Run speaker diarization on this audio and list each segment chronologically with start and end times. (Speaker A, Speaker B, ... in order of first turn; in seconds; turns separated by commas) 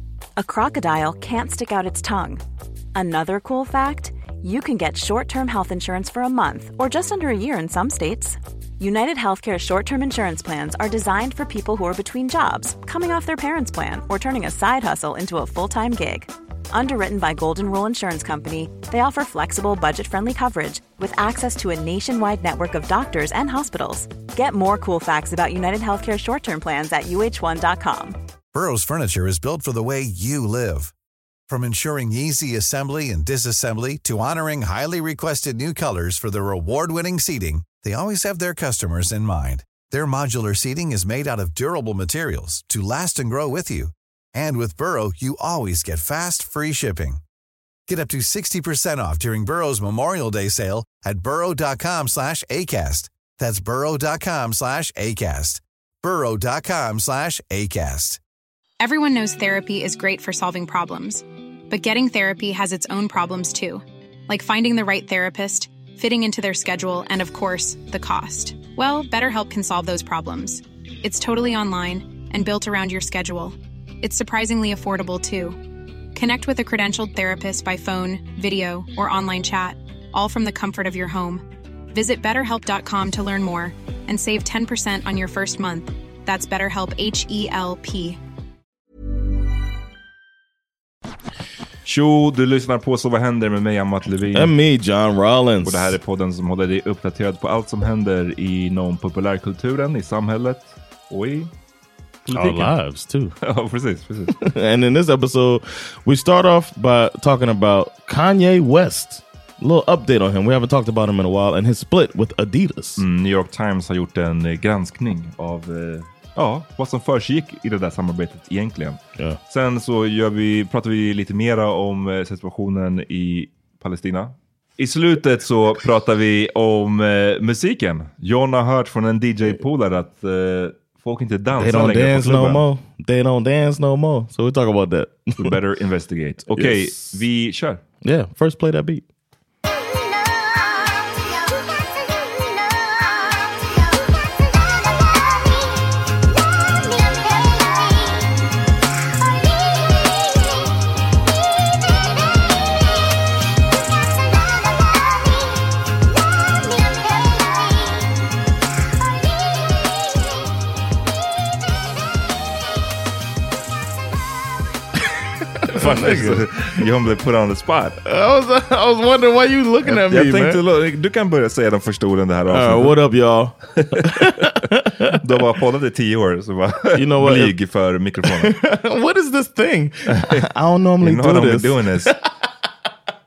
Speaker A: 0.4-2.4, Speaker A: 2.9-28.2, Speaker B: 28.5-30.9, Speaker B: 31.5-47.2, Speaker B: 47.9-58.2, Speaker C: 58.8-75.6, Speaker C: 76.1-88.2, Speaker D: 91.8-94.5, Speaker E: 94.3-95.9, Speaker D: 95.6-101.5, Speaker D: 102.3-102.7, Speaker E: 102.3-103.3, Speaker D: 103.4-104.3, Speaker E: 104.3-113.0, Speaker D: 113.0-132.6, Speaker E: 131.6-135.5, Speaker D: 135.4-137.8, Speaker E: 136.5-137.2, Speaker E: 138.0-139.0, Speaker E: 165.6-166.4, Speaker D: 165.7-168.0, Speaker E: 168.0-170.6, Speaker D: 169.8-172.9, Speaker E: 172.5-175.2, Speaker D: 173.8-174.0, Speaker D: 175.2-178.5, Speaker E: 176.9-177.5, Speaker E: 178.3-182.3, Speaker D: 181.0-182.1